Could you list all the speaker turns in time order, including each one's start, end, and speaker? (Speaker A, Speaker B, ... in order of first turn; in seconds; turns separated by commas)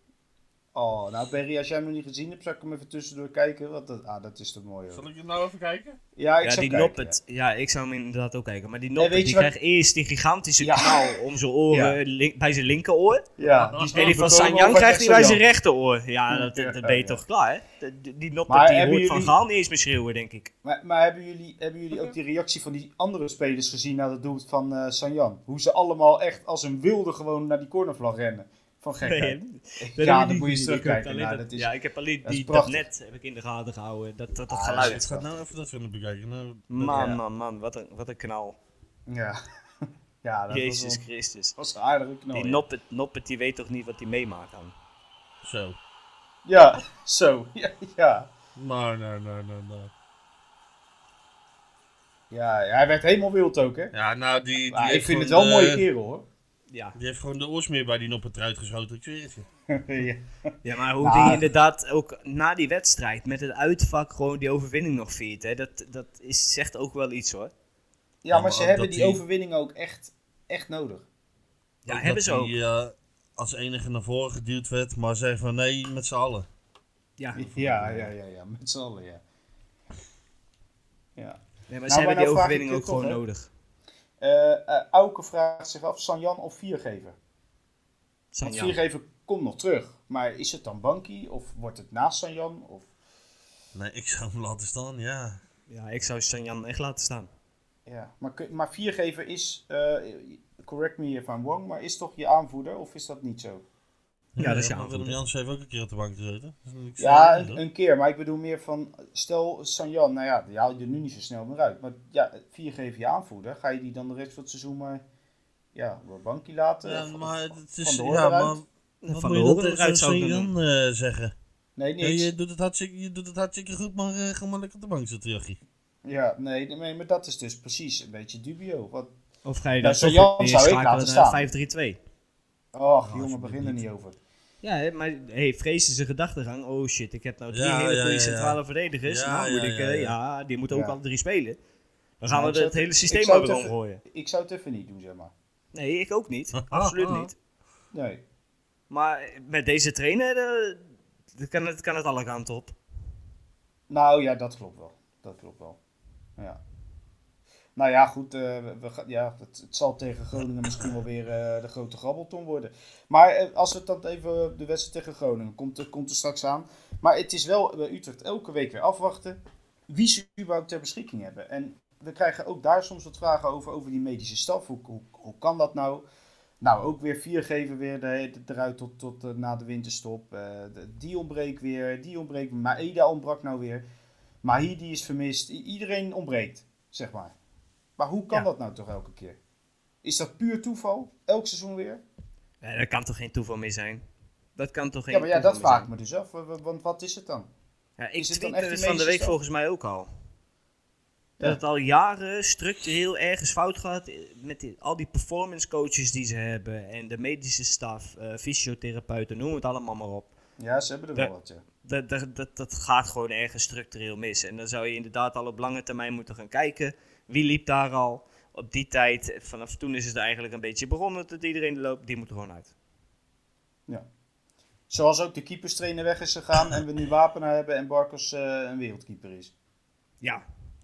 Speaker A: 0.7-5.0, Speaker B: 4.9-6.0, Speaker A: 6.2-7.2, Speaker C: 6.4-13.3, Speaker A: 9.0-9.5, Speaker A: 10.6-11.2, Speaker A: 11.7-12.0, Speaker A: 13.4-15.4, Speaker B: 13.6-14.3, Speaker C: 13.9-20.5, Speaker A: 16.3-17.2, Speaker A: 18.5-19.4, Speaker A: 20.6-31.7, Speaker C: 29.0-35.2, Speaker A: 32.2-32.9, Speaker A: 34.5-35.3, Speaker B: 34.7-37.1, Speaker C: 36.7-38.6, Speaker A: 36.8-37.2, Speaker A: 39.1-41.0, Speaker C: 40.5-41.6, Speaker A: 41.6-42.6, Speaker C: 42.3-44.7, Speaker B: 45.4-45.8, Speaker A: 46.4-48.3, Speaker B: 48.6-49.9, Speaker A: 52.3-53.9, Speaker B: 53.9-55.9, Speaker A: 54.7-56.2, Speaker C: 56.7-57.0, Speaker B: 56.9-59.5, Speaker A: 59.7-60.2, Speaker C: 60.6-67.5, Speaker A: 61.0-61.4, Speaker A: 68.2-71.0, Speaker B: 68.3-69.2, Speaker C: 71.8-72.5, Speaker B: 71.9-76.5, Speaker C: 77.2-77.4, Speaker A: 77.3-79.2, Speaker B: 77.5-78.1, Speaker A: 81.2-83.2, Speaker C: 81.7-83.5, Speaker A: 84.2-87.2, Speaker C: 88.3-88.8, Speaker A: 88.4-92.9, Speaker B: 93.7-95.4, Speaker C: 95.7-97.3, Speaker A: 97.9-103.6, Speaker B: 104.4-107.6, Speaker C: 104.4-105.2, Speaker A: 107.0-115.0, Speaker A: 115.7-118.6, Speaker B: 116.8-121.3, Speaker C: 119.0-120.5, Speaker A: 121.8-122.3, Speaker B: 122.0-125.6, Speaker A: 126.0-129.1, Speaker C: 129.4-132.0, Speaker A: 129.8-131.5, Speaker A: 132.7-134.2, Speaker B: 133.0-133.8, Speaker C: 134.6-141.6, Speaker B: 137.5-140.1, Speaker A: 140.7-141.0, Speaker C: 142.2-144.0, Speaker A: 142.3-145.3, Speaker C: 145.7-147.3, Speaker B: 146.6-147.3, Speaker A: 147.9-148.2, Speaker C: 148.9-152.8, Speaker A: 153.9-155.8, Speaker A: 157.8-169.4, Speaker A: 169.9-176.1, Speaker A: 176.6-183.8, Speaker A: 184.4-187.3, Speaker A: 188.0-189.4, Speaker A: 190.0-192.0, Speaker C: 192.6-194.0, Speaker C: 194.6-195.9, Speaker A: 195.1-197.5, Speaker C: 198.0-200.1, Speaker A: 198.2-199.4, Speaker C: 201.4-210.3, Speaker A: 210.6-211.6, Speaker C: 211.8-222.7, Speaker A: 224.9-229.5